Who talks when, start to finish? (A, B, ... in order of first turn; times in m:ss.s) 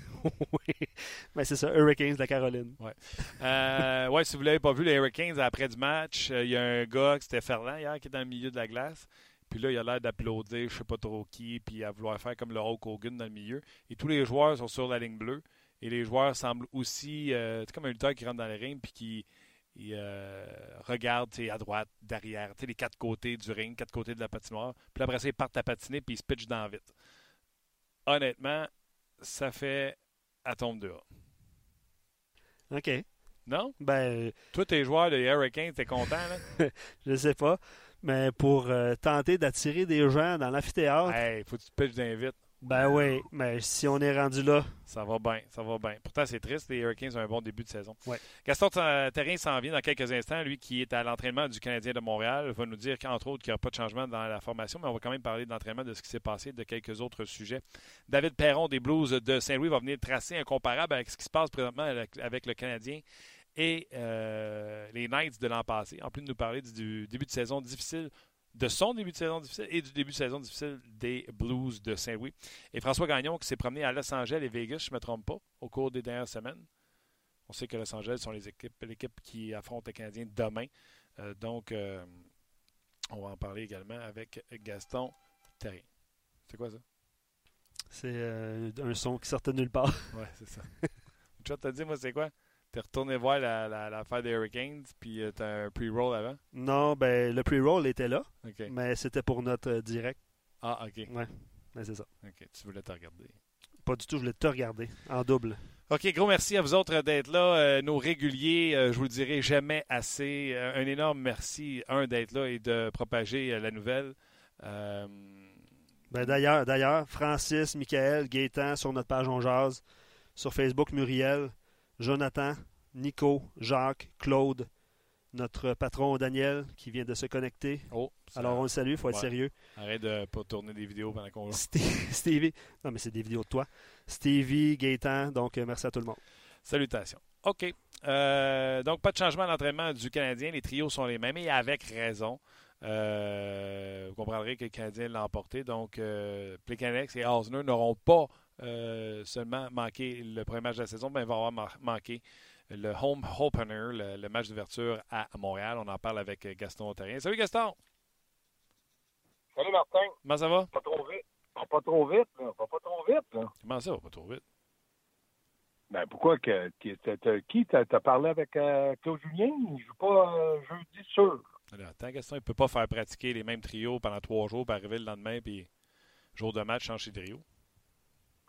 0:00.1-0:03.3 A
0:02.8-0:26.9 B
0:28.0-0:31.0 B
0:32.7-0:33.2 A
0:33.4-0:36.4 B
0:33.8-0:34.4 A
0:36.6-0:41.2 A
0:41.0-0:43.0 B
0:42.6-0:44.8 A
0:44.8-1:03.0 B
1:03.5-1:16.7 B
1:17.5-1:22.3 B
1:23.1-1:25.9 B
1:26.5-1:26.8 B
1:27.9-1:30.2 A
1:30.1-1:36.4 B
1:36.5-1:40.2 A
1:38.4-1:38.7 B
1:40.6-1:43.4 B
1:41.1-1:42.1 A
1:43.8-1:45.6 A
1:45.9-1:55.5 B
1:56.1-1:59.8 A
2:00.3-2:04.7 A
2:05.3-2:09.5 A
2:07.9-2:11.6 B
2:11.5-2:16.2 A
2:16.6-2:37.8 B
2:39.5-2:40.2 C
2:40.2-2:40.7 B
2:40.7-2:43.5 C
2:43.6-2:44.4 B
2:45.9-2:51.4 C
2:51.7-2:55.7 B
2:56.4-2:57.4 B